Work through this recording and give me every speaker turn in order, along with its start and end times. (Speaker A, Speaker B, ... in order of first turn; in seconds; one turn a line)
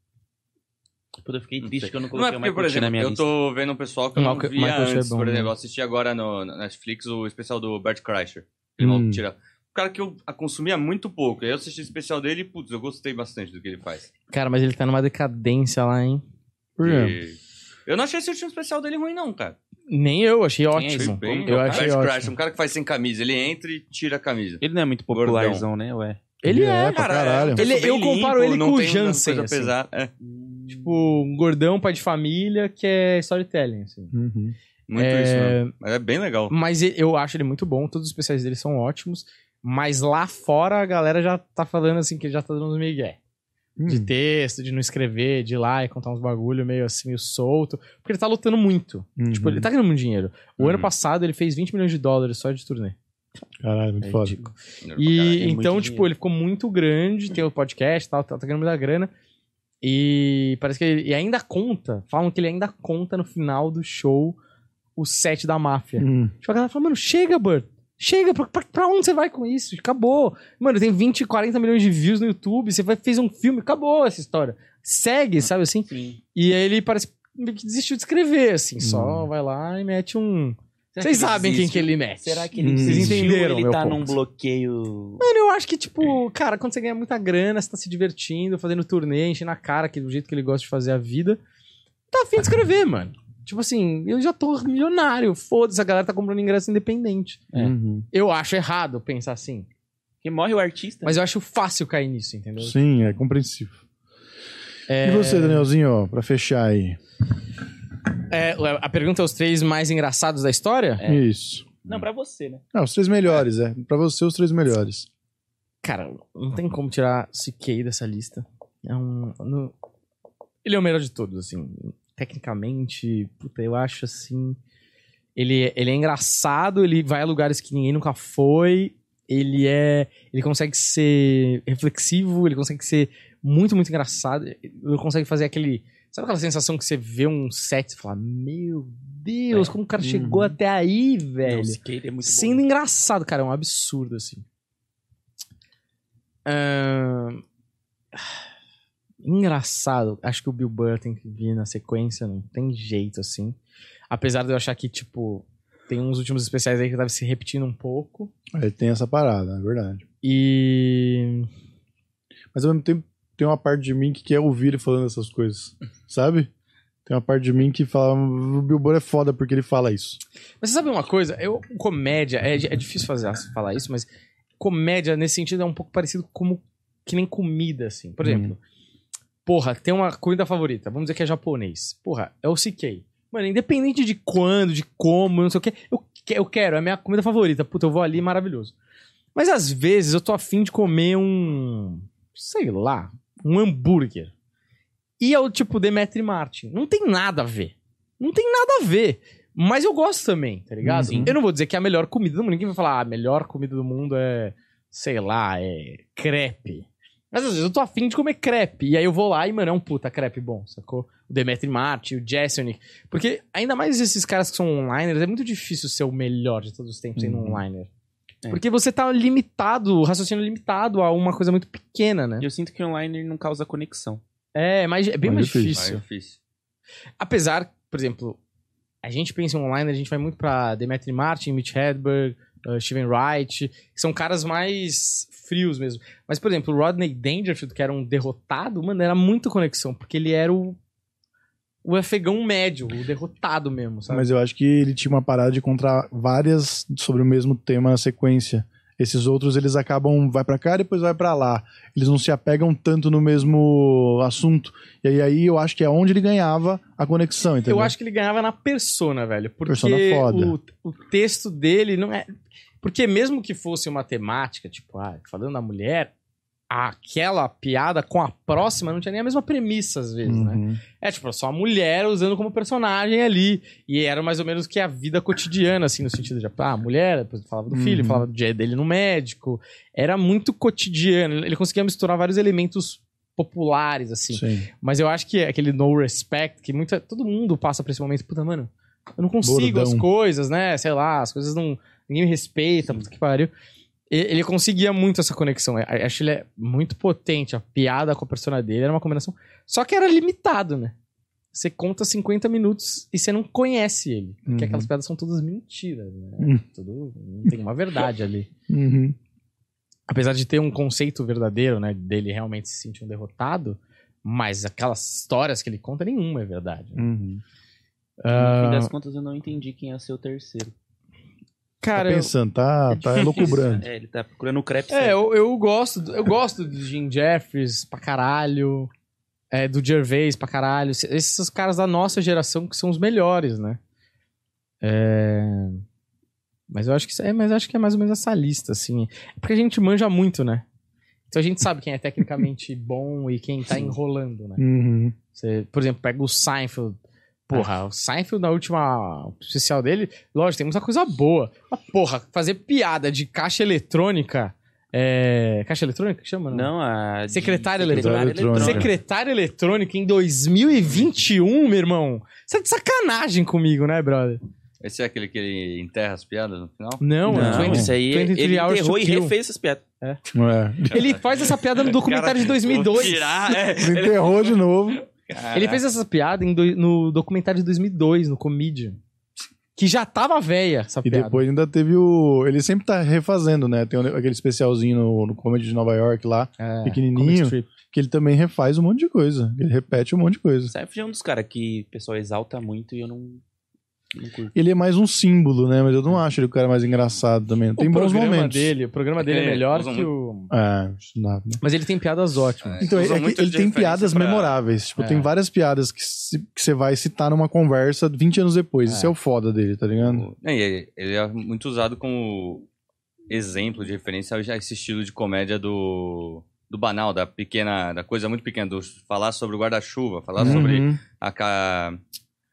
Speaker A: 1.2-3.3
Speaker B: 1.6-14.1
Speaker C: 4.2-5.5
Speaker D: 8.8-9.2
Speaker C: 14.3-16.2
Speaker D: 16.8-17.2
Speaker B: 16.8-19.6
Speaker C: 19.9-22.3
Speaker A: 20.7-21.9
Speaker B: 20.8-25.6
Speaker A: 24.6-26.3
Speaker C: 26.4-27.0
Speaker D: 26.4-27.6
Speaker B: 26.9-30.1
Speaker C: 27.6-29.7
Speaker A: 30.2-31.2
Speaker C: 30.7-34.1
Speaker D: 34.1-34.5
Speaker B: 34.9-36.5
Speaker C: 35.0-35.7
Speaker C: 36.5-43.2
Speaker D: 43.8-44.1
Speaker C: 43.9-53.0
Speaker D: 49.2-49.7
Speaker B: 50.6-50.9
Speaker D: 53.6-54.4
Speaker C: 54.0-59.1
Speaker B: 54.8-55.5
Speaker A: 55.3-56.1
Speaker C: 59.8-64.4
Speaker C: 65.0-84.2
Speaker D: 66.0-66.3
Speaker A: 75.9-76.2
Speaker D: 78.8-79.3
Speaker A: 80.9-85.2
Speaker D: 82.6-83.3
Speaker C: 85.2-91.4
Speaker C: 92.1-97.4
Speaker D: 97.5-98.0
Speaker C: 98.1-99.7
Speaker A: 100.2-101.2
Speaker C: 101.0-102.8
Speaker D: 102.6-103.8
Speaker C: 104.9-105.7
Speaker D: 105.0-107.0
Speaker C: 108.3-111.0
Speaker D: 111.0-112.0
Speaker A: 111.8-112.6
Speaker D: 112.7-115.1
Speaker C: 115.8-119.7
Speaker C: 120.6-124.6
Speaker C: 125.3-144.4
Speaker D: 140.0-140.6
Speaker A: 141.4-142.6
Speaker C: 146.4-147.4
Speaker C: 149.2-153.6
Speaker C: 154.1-158.3
Speaker D: 158.5-160.0
Speaker C: 160.2-161.5
Speaker D: 162.5-166.5
Speaker D: 167.1-170.2
Speaker C: 170.6-174.1
Speaker C: 174.6-178.6
Speaker D: 178.2-178.5
Speaker C: 179.4-188.7
Speaker C: 189.3-194.3
Speaker C: 195.2-217.9
Speaker D: 200.8-201.3
Speaker A: 201.0-201.3
Speaker D: 217.2-217.6
Speaker C: 218.5-222.4
Speaker A: 222.4-224.2
Speaker C: 224.5-225.9
Speaker D: 225.2-226.0
Speaker B: 225.7-226.4
Speaker C: 227.2-228.4
Speaker C: 229.0-240.8
Speaker C: 241.8-244.3
Speaker D: 244.1-257.9
Speaker C: 257.6-266.1
Speaker D: 259.6-260.6
Speaker C: 266.7-293.5
Speaker D: 270.2-270.8
Speaker D: 277.7-278.2
Speaker D: 284.3-284.7
Speaker D: 289.4-290.1
Speaker C: 294.1-300.9
Speaker C: 301.5-308.5
Speaker D: 304.5-304.9
Speaker D: 308.7-309.1
Speaker C: 310.1-317.0
Speaker D: 316.9-317.4
Speaker C: 318.2-318.9
Speaker A: 318.3-320.7
Speaker C: 321.8-322.3
Speaker D: 321.9-323.9
Speaker A: 322.9-325.2
Speaker C: 323.2-323.6
Speaker C: 324.9-328.9
Speaker C: 329.5-333.8
Speaker C: 334.8-335.8
Speaker C: 336.7-340.6
Speaker C: 341.3-344.6
Speaker D: 344.6-345.1
Speaker C: 345.3-356.7
Speaker A: 356.5-358.9
Speaker C: 357.3-364.4
Speaker D: 357.9-358.9
Speaker B: 364.8-367.0
Speaker C: 367.0-369.3
Speaker D: 367.3-367.9
Speaker A: 367.3-369.8
Speaker D: 370.3-371.0
Speaker B: 370.9-375.8
Speaker C: 370.9-373.5
Speaker D: 373.8-375.0
Speaker C: 375.5-379.0
Speaker C: 379.8-381.4
Speaker D: 381.0-390.7
Speaker C: 386.6-387.7
Speaker A: 390.7-393.4
Speaker A: 394.1-394.6
Speaker D: 394.5-398.7
Speaker C: 397.8-400.5
Speaker B: 399.2-400.1
Speaker D: 400.5-401.6
Speaker C: 401.6-402.9
Speaker B: 402.6-404.6
Speaker D: 402.8-410.2
Speaker C: 405.0-405.3
Speaker C: 408.9-409.1
Speaker B: 410.0-412.7
Speaker B: 413.3-422.0
Speaker D: 420.4-421.0